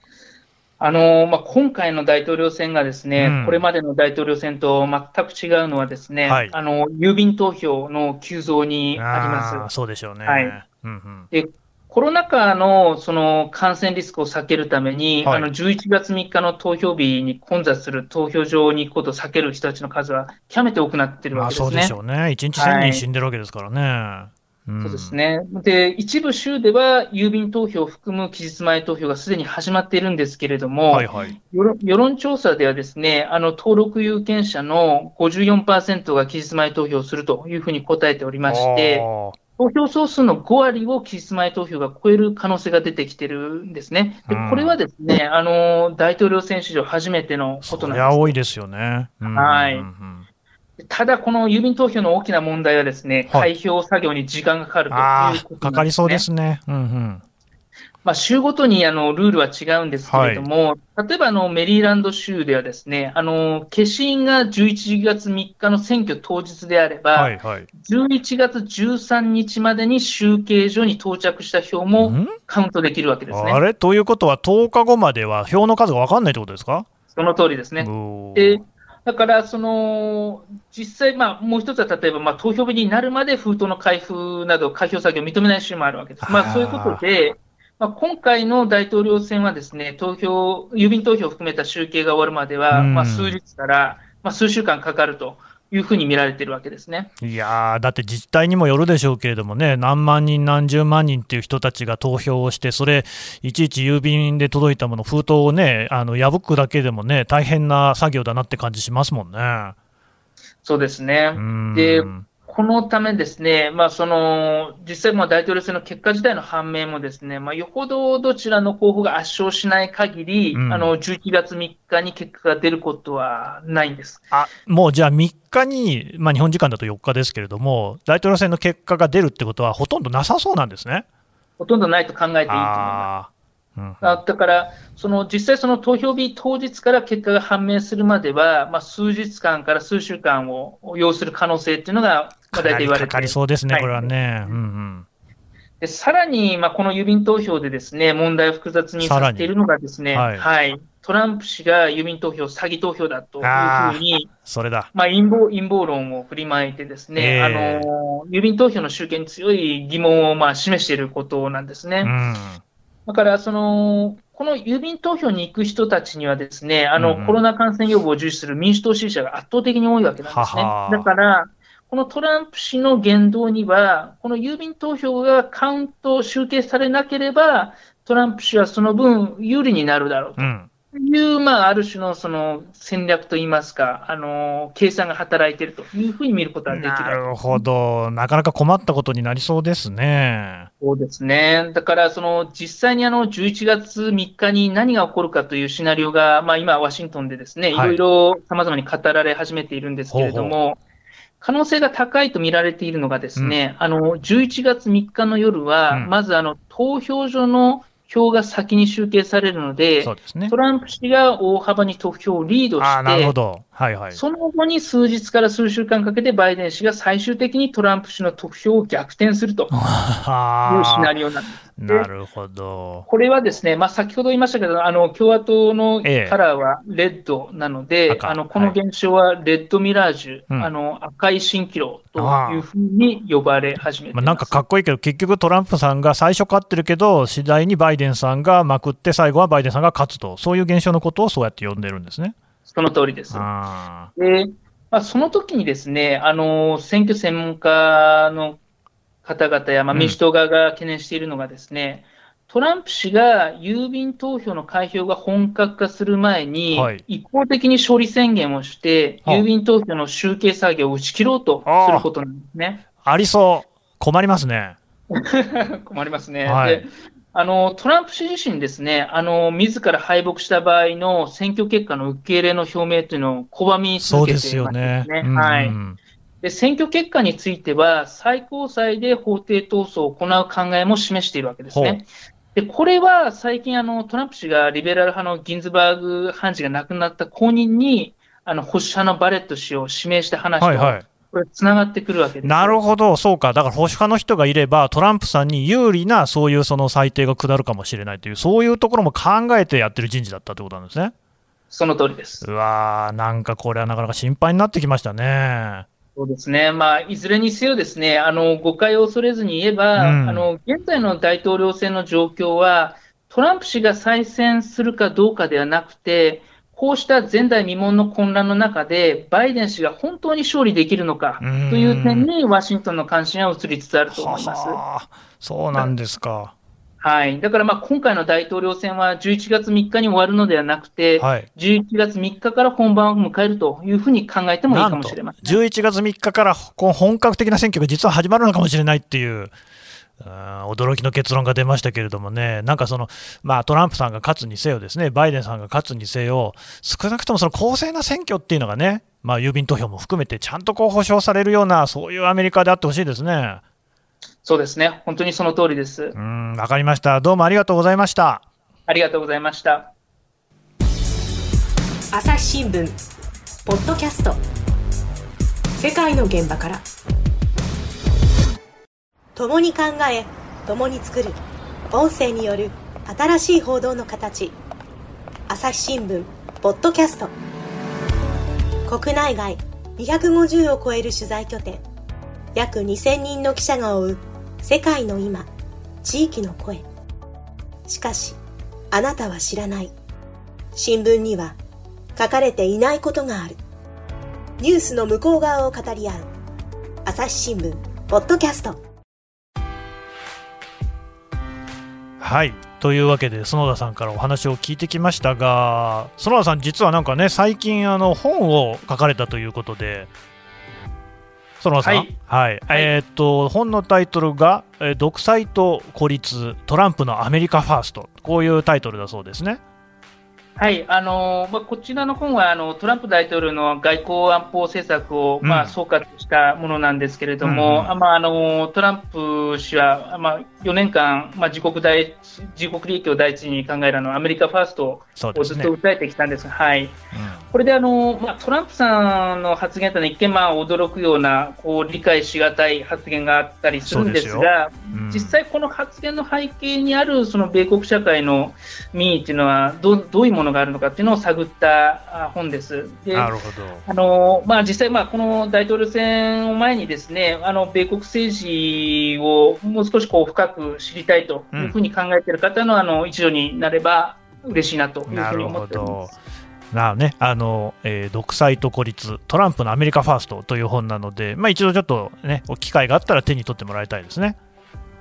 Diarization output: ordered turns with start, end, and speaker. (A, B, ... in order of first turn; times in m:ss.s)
0:00.8-0:09.7 A
0:03.2-0:03.6 B
0:06.2-0:06.5 B
0:09.0-0:11.3 B
0:10.2-0:10.6 A
0:11.3-0:21.9 A
0:15.2-0:15.5 B
0:21.3-0:25.2 B
0:22.5-0:23.0 A
0:24.8-0:39.1 A
0:30.9-0:31.4 B
0:38.5-0:39.4 B
0:39.6-0:48.4 A
0:44.3-0:44.8 B
0:47.6-0:50.2 B
0:49.3-0:49.9 A
0:50.8-0:56.2 A
0:54.9-0:57.2 B
0:58.0-1:13.6 A
1:00.1-1:00.5 B
1:07.1-1:07.7 B
1:12.0-1:12.4 B
1:13.3-1:16.9 B
1:17.1-1:37.1 A
1:17.8-1:18.6 B
1:26.2-1:27.0 B
1:32.7-1:33.4 B
1:37.2-1:49.7 B
1:50.6-2:04.2 A
1:51.4-1:52.2 B
2:00.5-2:00.9 B
2:04.3-2:11.0 B
2:11.6-2:13.1 A
2:12.5-2:14.2 B
2:14.0-2:24.6 A
2:22.5-2:25.0 B
2:25.8-2:34.3 A
2:29.0-2:29.5 B
2:30.1-2:30.4 B
2:33.4-2:34.9 B
2:34.9-2:42.1 A
2:37.2-2:37.9 B
2:42.0-2:42.6 B
2:43.0-3:07.6 A
2:47.0-2:47.4 B
2:50.3-2:51.1 B
3:00.4-3:00.7 B
3:06.7-3:10.7 B
3:10.8-3:20.8 A
3:17.7-3:18.0 B
3:20.1-3:20.6 B
3:21.4-3:33.3 A
3:30.0-3:30.5 B
3:32.8-3:34.2 B
3:34.1-3:39.7 A
3:39.7-3:41.1 B
3:40.6-3:42.1 A
3:41.8-3:43.1 B
3:43.1-3:54.6 A
3:46.0-3:46.4 B
3:48.1-3:48.8 B
3:52.2-3:52.6 B
3:54.1-4:02.3 B
4:02.7-4:03.4 A
4:03.3-4:04.1 B
4:04.2-4:08.6 A
4:09.2-4:22.8 A
4:16.7-4:17.0 B
4:21.6-4:22.1 B
4:23.0-4:24.8 B
4:25.1-4:35.8 A
4:26.4-4:26.8 B
4:34.0-4:36.0 B
4:36.4-4:52.8 A
4:41.7-4:42.0 B
4:50.6-4:51.0 B
4:52.4-5:01.1 B
5:01.7-5:02.4 A
5:02.4-5:05.8 B
5:06.2-5:24.8 A
5:10.0-5:10.5 B
5:21.4-5:22.3 B
5:24.1-5:26.5 B
5:27.0-5:35.6 A
5:31.2-5:31.5 B
5:34.7-5:39.5 B
5:40.2-5:53.6 B
5:54.4-5:56.2 A
5:56.1-5:58.4 B
5:58.9-5:59.9 A
6:02.1-6:03.0 C
6:03.6-6:04.4 C
6:05.8-6:06.8 C
6:09.4-6:11.4 C
6:11.9-6:14.5 C
6:15.5-6:17.3 C
6:18.9-6:21.8 C
6:22.5-6:25.5 C
6:26.0-6:26.8 C
6:27.9-6:28.4 C
6:28.9-6:29.9 C
6:30.7-6:31.6 C
6:32.2-6:33.6 C
6:34.6-6:36.3 C
6:37.0-6:38.8 C
6:42.2-6:50.1 B
6:51.6-6:59.6 B
6:51.8-6:52.1 A
7:00.6-7:17.0 A
7:05.4-7:05.7 B
7:07.4-7:07.9 B
7:15.2-7:15.7 B
7:17.1-7:17.4 B
7:17.5-7:33.3 A
7:23.8-7:25.4 B
7:33.1-7:33.8 B
7:33.9-7:46.1 A
7:45.0-7:46.1 B
7:46.7-7:54.4 B